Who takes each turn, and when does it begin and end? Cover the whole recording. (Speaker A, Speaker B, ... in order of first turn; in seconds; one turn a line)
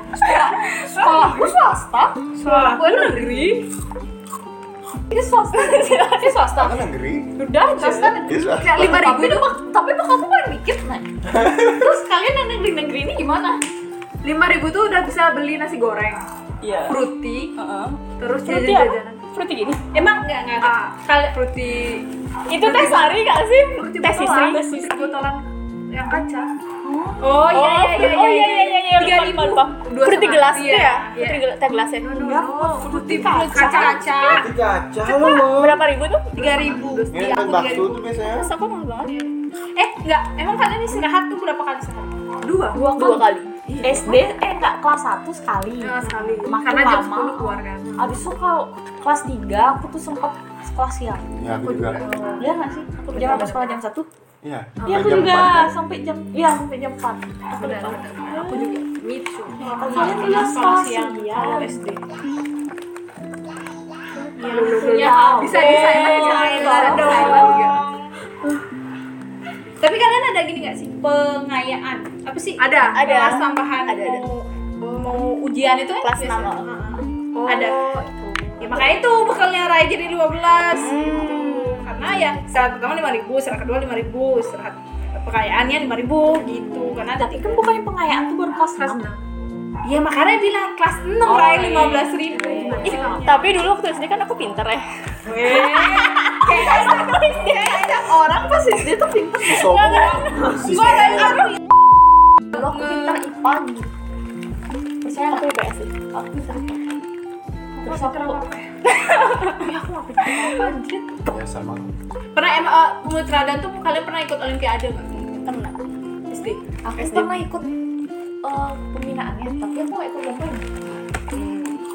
Speaker A: 0.1-2.2
Speaker B: 2.4-3.6
Speaker C: 2.4-3.6
Speaker A: 5.1-6.8
Speaker D: 5.6-6.5
Speaker E: 6.5-7.3
Speaker A: 7.4-11.1
Speaker B: 7.7-9.6
Speaker E: 8.2-9.1
Speaker E: 11.3-11.9
Speaker A: 11.7-13.6
Speaker B: 14.2-16.2
Speaker D: 16.6-17.0
Speaker B: 16.8-17.5
Speaker D: 17.6-19.8
Speaker B: 18.2-19.2
Speaker C: 19.9-21.1
Speaker B: 20.6-22.0
Speaker D: 22.5-24.8
Speaker B: 22.6-23.2
Speaker B: 23.7-26.5
Speaker C: 24.6-24.9
Speaker A: 26.8-27.5
Speaker C: 27.2-29.6
Speaker D: 27.5-32.4
Speaker B: 29.7-31.4
Speaker B: 32.0-34.3
Speaker A: 32.1-34.1
Speaker C: 32.8-34.5
Speaker D: 33.5-34.0
Speaker E: 34.2-35.8
Speaker D: 35.1-36.6
Speaker C: 36.3-37.1
Speaker B: 36.8-38.0
Speaker E: 37.1-38.5
Speaker D: 38.3-39.1
Speaker C: 39.7-42.1
Speaker B: 42.4-42.9
Speaker A: 42.7-43.3
Speaker D: 42.8-43.5
Speaker B: 43.7-44.0
Speaker A: 43.8-51.2
Speaker B: 45.8-48.0
Speaker E: 51.4-52.0
Speaker B: 51.6-52.5
Speaker A: 52.4-54.1
Speaker B: 53.1-53.7
Speaker E: 54.4-55.7
Speaker B: 54.8-55.5
Speaker A: 54.9-58.0
Speaker B: 57.6-60.5
Speaker A: 59.6-61.7
Speaker C: 59.6-62.0
Speaker C: 64.4-67.7
Speaker B: 64.4-67.8
Speaker A: 64.4-67.5
Speaker D: 65.5-68.1
Speaker C: 69.8-77.9
Speaker B: 72.6-73.1
Speaker D: 72.9-74.3
Speaker D: 76.0-76.7
Speaker B: 77.3-78.1
Speaker C: 78.6-87.7
Speaker D: 80.7-81.8
Speaker A: 86.7-89.1
Speaker B: 88.7-89.2
Speaker C: 89.8-93.2
Speaker A: 91.2-93.5
Speaker D: 93.1-94.8
Speaker C: 95.2-98.8
Speaker D: 95.5-98.0
Speaker A: 98.8-100.6
Speaker E: 99.5-101.4
Speaker D: 99.5-101.4
Speaker C: 101.0-101.5
Speaker A: 102.5-103.9
Speaker C: 102.5-103.2
Speaker A: 105.0-106.9
Speaker D: 105.2-105.9
Speaker B: 107.8-108.7
Speaker A: 107.8-108.4
Speaker D: 108.9-109.6
Speaker A: 109.6-111.2
Speaker E: 111.2-111.9
Speaker C: 112.3-115.4
Speaker D: 115.3-115.8
Speaker C: 116.3-116.6
Speaker A: 116.8-117.7
Speaker D: 117.0-117.3
Speaker A: 118.4-120.7
Speaker D: 121.3-121.8